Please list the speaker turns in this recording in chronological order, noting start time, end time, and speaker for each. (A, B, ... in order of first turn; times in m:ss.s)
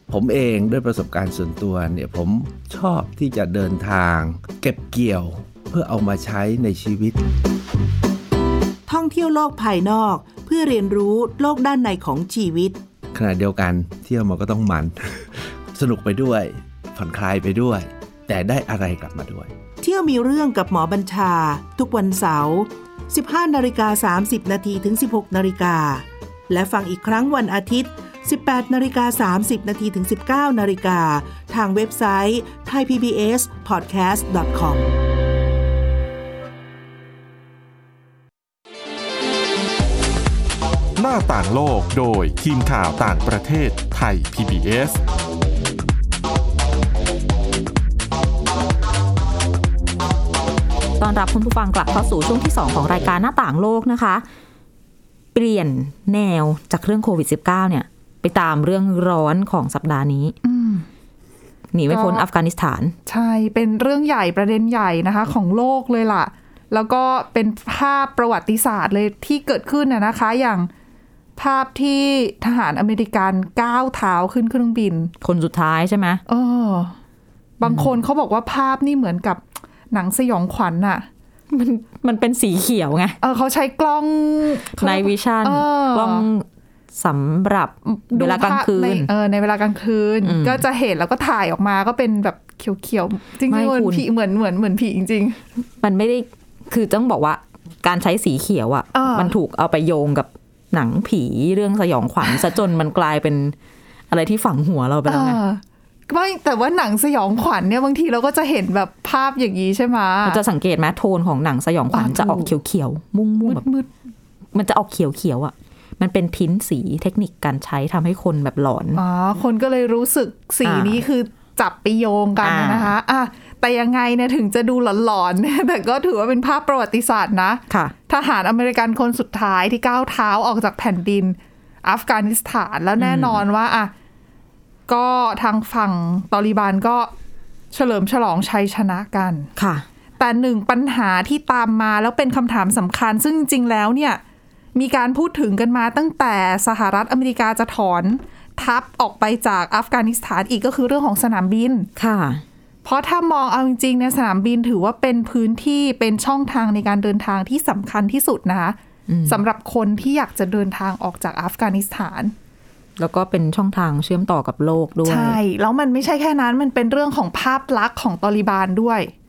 0:00.1-0:07.2 A
0:08.9-0:12.8 B
0:13.1-0:19.5 A
0:19.8-0:35.0 B
0:41.0-0:45.0 C
0:51.0-0:54.2 D
0:55.3-1:00.4 D
1:00.4-1:00.9 E
1:01.7-1:02.9 D
1:01.9-1:02.2 E
1:03.0-1:10.7 E
1:11.4-1:15.1 E
1:15.2-1:16.2 D
1:16.3-1:17.0 E
1:17.6-1:21.1 E
1:17.6-1:17.9 D
1:21.5-1:23.2 D
1:23.2-1:26.3 E
1:24.8-1:26.4 D
1:27.0-1:29.1 D
1:27.8-1:35.4 E
1:30.2-1:30.6 D
1:33.5-1:34.0 D
1:35.8-1:43.5 D
1:38.9-1:39.3 E
1:44.1-1:45.4 D
1:45.1-1:50.4 E
1:50.2-1:53.6 D
1:51.9-1:52.5 E
1:53.4-1:53.9 E
1:54.5-1:59.0 D
1:58.9-2:13.9 E
2:00.6-2:01.0 D
2:02.4-2:02.9 D
2:13.0-2:13.4 D
2:14.9-2:17.1 E
2:17.7-2:19.5 E
2:19.6-2:19.8 D
2:20.2-2:24.2 E
2:24.7-2:31.9 E
2:32.0-2:32.4 D
2:32.8-2:42.3 E
2:39.1-2:39.4 D
2:43.0-2:45.4 D
2:45.0-2:49.1 E